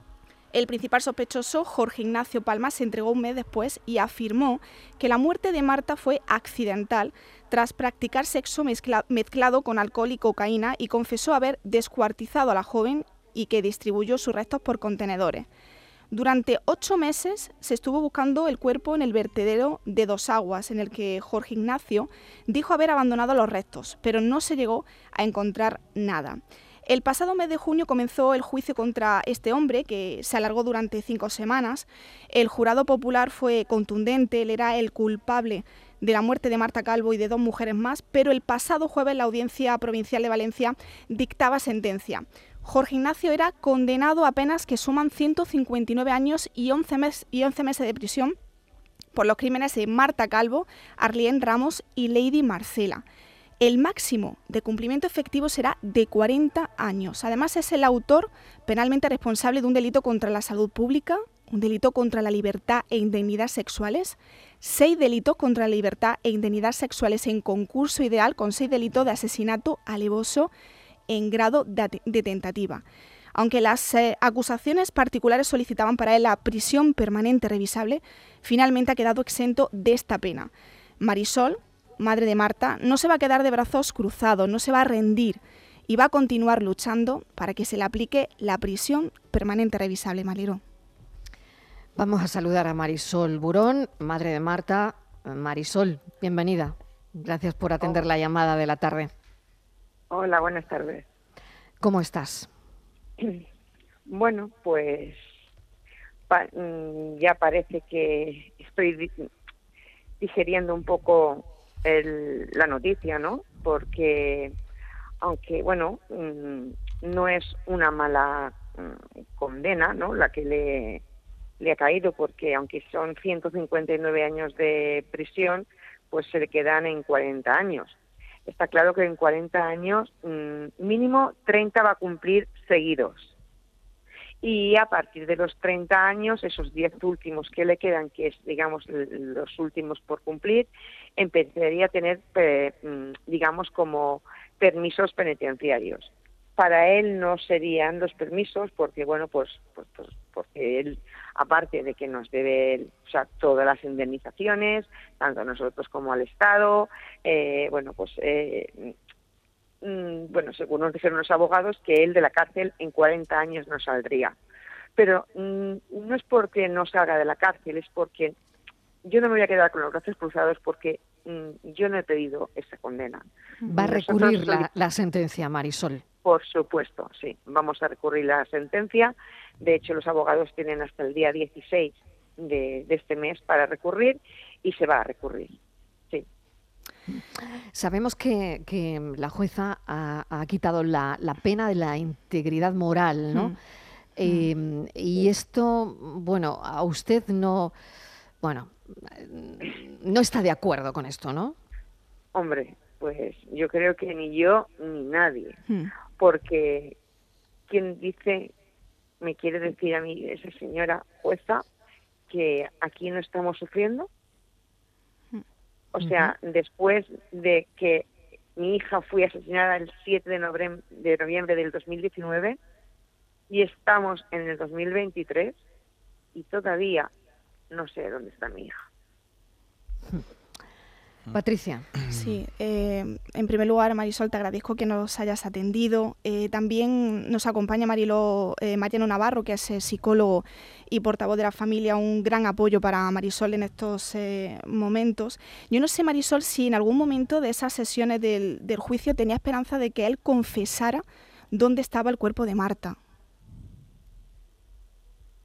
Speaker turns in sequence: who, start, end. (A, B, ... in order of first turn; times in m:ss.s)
0:00.5-0:15.4 A
0:16.1-0:48.4 A
0:49.1-0:53.0 A
0:53.6-1:10.5 A
1:11.1-1:30.6 A
1:32.0-1:39.1 B
1:40.1-1:41.0 C
1:41.8-1:42.5 B
1:44.0-1:45.2 C
1:46.3-1:49.1 C
1:50.2-1:54.6 C
1:55.2-2:01.0 C
2:01.6-2:08.0 C
2:08.4-2:13.3 C
2:14.4-2:38.9 C
2:39.8-2:44.4 C
2:45.0-2:48.3 C
2:49.0-2:54.7 C
2:53.7-2:56.0 B
2:56.2-3:05.6 C
3:07.7-3:13.5 B
3:14.2-3:17.7 B
3:14.2-3:14.5 A
3:18.4-3:21.6 B
3:22.3-3:25.6 C
3:25.7-3:25.9 A
3:26.2-3:27.0 C
3:27.7-3:28.5 C
3:29.2-3:31.6 C
3:32.3-3:34.1 C
3:35.9-3:42.6 C
3:43.5-3:45.6 C
3:46.3-3:47.1 C
3:47.7-3:48.8 C
3:51.3-3:51.9 B
3:52.1-4:13.0 A